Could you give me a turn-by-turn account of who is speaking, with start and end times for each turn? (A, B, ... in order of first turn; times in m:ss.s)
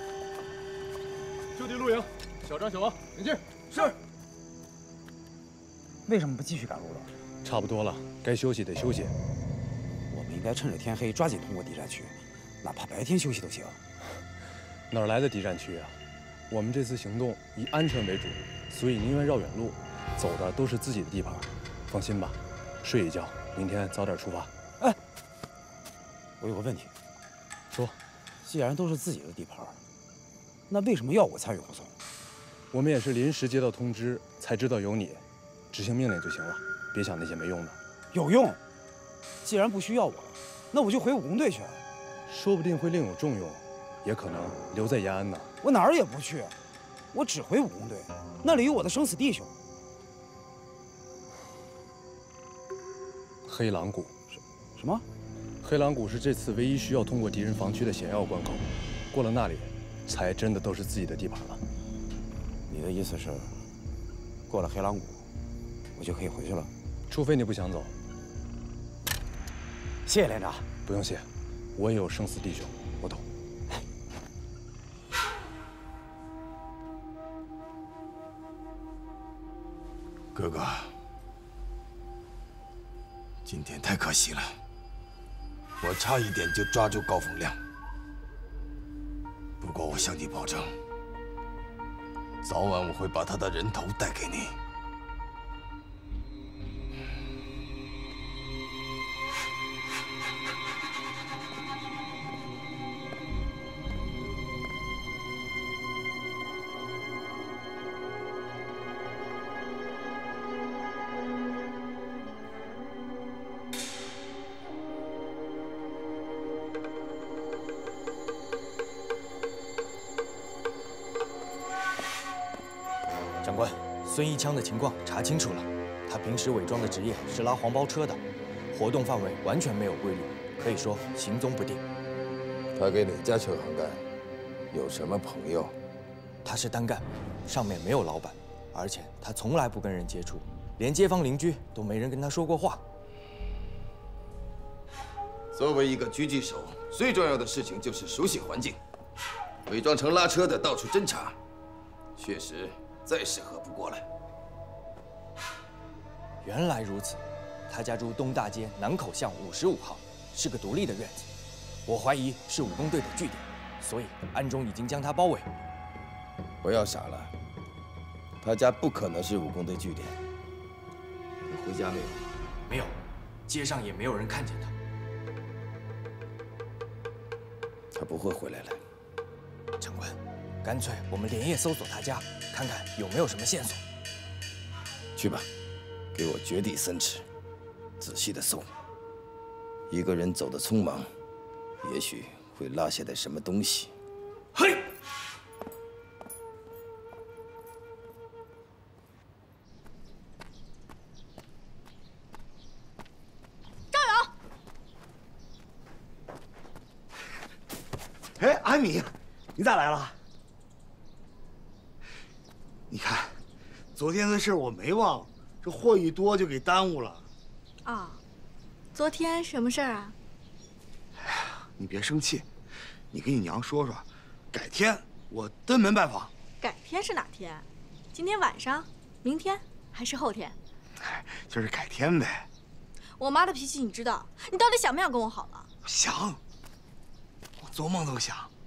0:06.0-0:07.1 A
0:07.4-0:09.1 B
0:10.1-0:13.8 A
0:14.9-0:15.9 B
0:16.5-0:24.5 B
0:26.4-0:26.9 A
0:28.4-0:29.8 A
0:30.7-0:31.9 A
0:32.7-0:37.8 B
0:38.1-0:38.6 A
0:39.4-0:41.8 A
0:42.3-0:45.5 B
0:45.6-0:46.5 A
0:47.1-0:49.5 A
0:53.4-0:54.1 B
0:54.8-0:55.0 A
0:55.6-1:01.6 B
1:02.7-1:03.6 A
1:04.5-1:05.2 A
1:06.0-1:06.7 A
1:07.1-1:07.9 B
1:10.0-1:10.7 A
1:10.8-1:12.7 B
1:20.3-1:20.9 C
1:23.4-1:24.5 C
1:25.8-1:27.6 C
1:29.6-1:30.7 C
1:32.4-1:34.6 C
2:03.4-2:08.2 D
2:08.7-2:11.8 D
2:12.7-2:14.0 C
2:14.7-2:15.7 C
2:16.4-2:22.8 D
2:25.5-2:28.8 C
2:29.6-2:31.4 C
2:32.2-2:34.0 C
2:36.4-2:41.3 D
2:41.8-2:45.5 D
2:46.6-2:47.3 C
2:48.4-2:50.2 C
2:51.4-2:52.2 C
2:52.7-2:54.7 D
2:57.9-2:58.8 C
2:59.8-3:03.8 D
3:05.2-3:05.5 C
3:06.1-3:07.2 C
3:08.0-3:08.7 C
3:09.9-3:11.1 C
3:11.8-3:13.9 C
3:23.9-3:24.3 E
3:28.4-3:30.2 F
3:32.9-3:33.4 F
3:33.9-3:37.3 F
3:37.8-3:38.2 E
3:38.9-3:40.1 E
3:41.2-3:42.5 F
3:43.1-3:46.3 F
3:46.6-3:50.6 E
3:51.0-3:52.5 F
3:53.2-3:55.7 E
3:55.8-3:56.4 F
3:57.6-3:58.5 F